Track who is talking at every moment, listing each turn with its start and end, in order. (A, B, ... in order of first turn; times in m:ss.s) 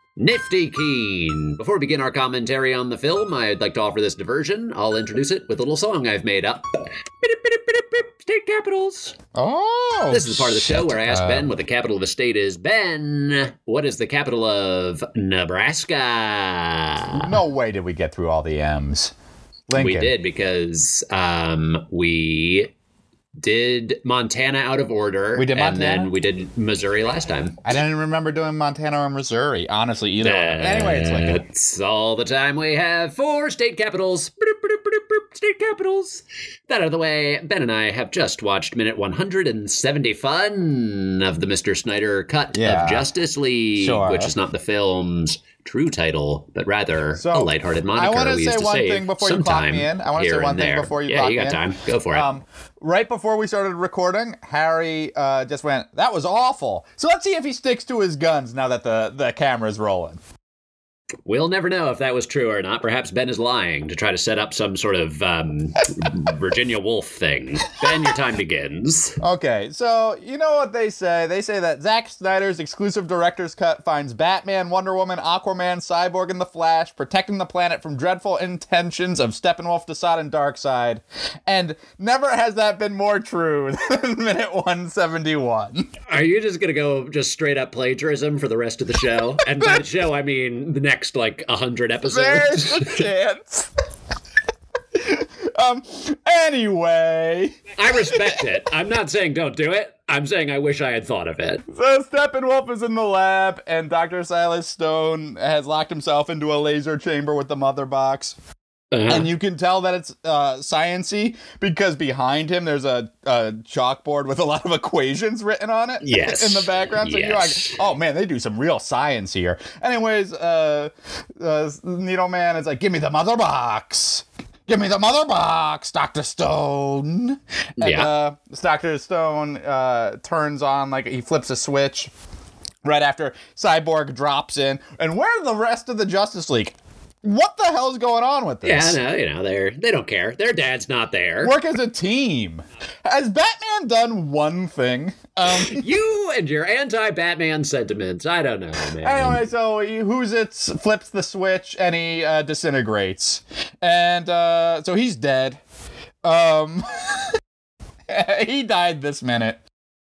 0:00.2-0:06.6 A
0:07.2-0:09.1 A
0:09.3-0:11.5 B
0:10.1-0:17.2 A
0:17.2-0:19.1 B
0:19.7-0:20.1 B
0:19.7-0:22.7 A
0:23.4-0:27.6 A
0:25.4-0:26.1 B
0:27.6-0:31.4 B
0:30.2-0:52.3 A
0:42.5-0:43.1 B
0:43.8-0:44.3 B
0:47.1-1:00.2 B
1:01.2-1:09.2 A
1:09.2-1:25.9 B
1:26.1-1:33.1 A
1:32.1-1:33.7 B
1:35.0-1:38.5 B
1:37.8-1:41.6 A
1:41.7-1:48.4 B
1:48.9-1:49.3 A
1:49.1-2:12.1 B
1:56.0-1:57.8 A
2:07.8-2:08.1 A
2:12.8-2:19.0 B
2:18.6-2:21.5 A
2:21.4-2:25.9 B
2:25.5-2:29.4 A
2:29.0-2:35.6 B
2:36.2-2:37.3 B
2:38.1-2:39.6 B